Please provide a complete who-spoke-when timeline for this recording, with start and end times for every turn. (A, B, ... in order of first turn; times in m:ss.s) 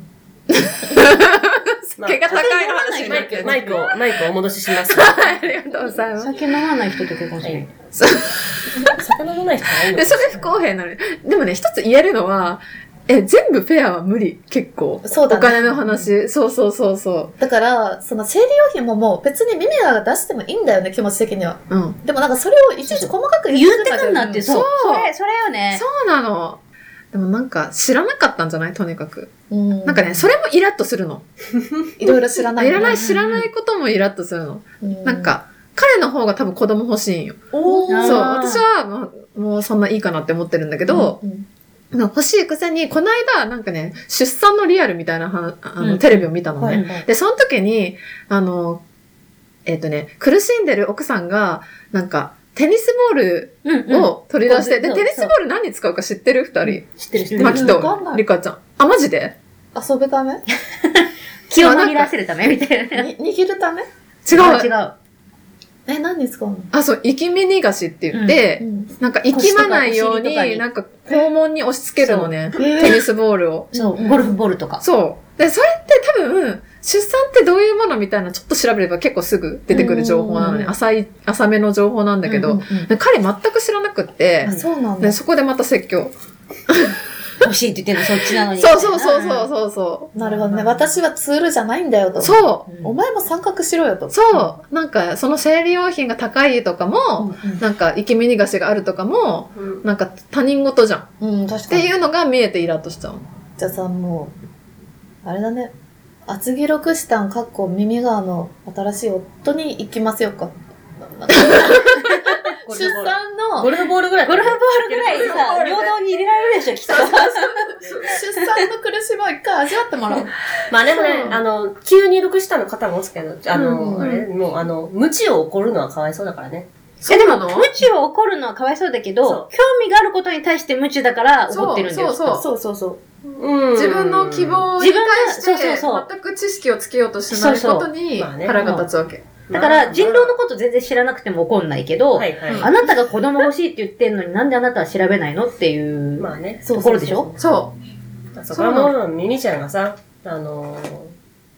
0:00.5-0:04.0 A
0:02.0-0:02.5 B
0:02.2-0:03.8 C
0:03.0-0:05.4 B
0:04.7-0:06.6 A
0:06.2-0:07.7 C
0:07.9-0:09.0 A
0:08.8-0:10.5 B
0:09.7-0:17.3 A
0:15.0-0:16.0 D
0:17.4-0:24.4 D
0:21.7-0:22.0 A
0:22.8-0:25.8 C
0:24.4-0:25.1 A
0:25.7-0:26.6 A
0:27.1-0:29.3 A
0:29.5-0:30.3 D
0:29.8-0:31.2 A
0:32.0-0:33.0 D
0:32.6-0:41.2 A
0:32.8-0:33.5 C
0:34.8-0:35.3 D
0:37.6-0:38.3 D
0:37.9-0:38.6 C
0:40.9-0:41.4 D
0:41.9-0:48.8 A
0:45.8-0:47.0 C
0:49.6-0:59.4 A
0:53.6-0:55.3 C
0:56.7-0:57.9 C
0:57.4-0:58.2 D
0:59.8-1:00.4 D
1:00.7-1:03.1 C
1:01.6-1:02.1 A
1:02.9-1:03.8 D
1:04.2-1:04.7 A
1:04.3-1:04.9 C
1:05.8-1:06.7 D
1:06.7-1:14.1 A
1:08.1-1:08.4 C
1:08.6-1:08.9 D
1:09.3-1:10.6 C
1:12.0-1:12.3 C
1:12.6-1:13.0 D
1:13.7-1:14.8 C
1:13.8-1:14.3 D
1:14.8-1:26.1 A
1:19.7-1:20.7 D
1:22.2-1:22.8 C
1:24.4-1:25.2 D
1:26.7-1:27.0 A
1:27.4-1:29.5 C
1:28.2-1:30.6 A
1:30.2-1:34.2 D
1:30.2-1:30.8 C
1:32.2-1:32.7 A
1:32.7-1:32.9 C
1:34.1-1:41.1 A
1:37.2-1:37.6 D
1:39.6-1:39.8 B
1:41.2-1:41.9 D
1:41.7-1:43.2 A
1:43.6-1:44.3 D
1:45.2-1:45.7 D
1:46.3-1:53.7 D
1:51.4-1:52.0 A
1:52.6-1:56.0 B
1:54.2-1:57.7 C
1:56.9-1:58.2 A
1:58.0-2:00.3 D
2:00.7-2:06.7 B
2:01.1-2:01.3 A
2:03.8-2:04.1 D
2:04.0-2:04.3 A
2:07.0-2:07.7 A
2:07.1-2:12.4 C
2:11.5-2:12.4 A
2:12.4-2:13.0 D
2:13.4-2:14.7 B
2:13.7-2:19.2 A
2:14.8-2:16.1 C
2:17.3-2:17.9 C
2:18.2-2:18.6 B
2:18.6-2:18.9 C
2:19.5-2:20.4 B
2:19.5-2:27.3 C
2:22.2-2:22.7 B
2:22.5-2:22.7 A
2:26.2-2:26.7 B
2:26.6-2:27.4 D
2:27.4-2:27.8 A
2:28.4-2:31.1 B
2:28.5-2:28.9 A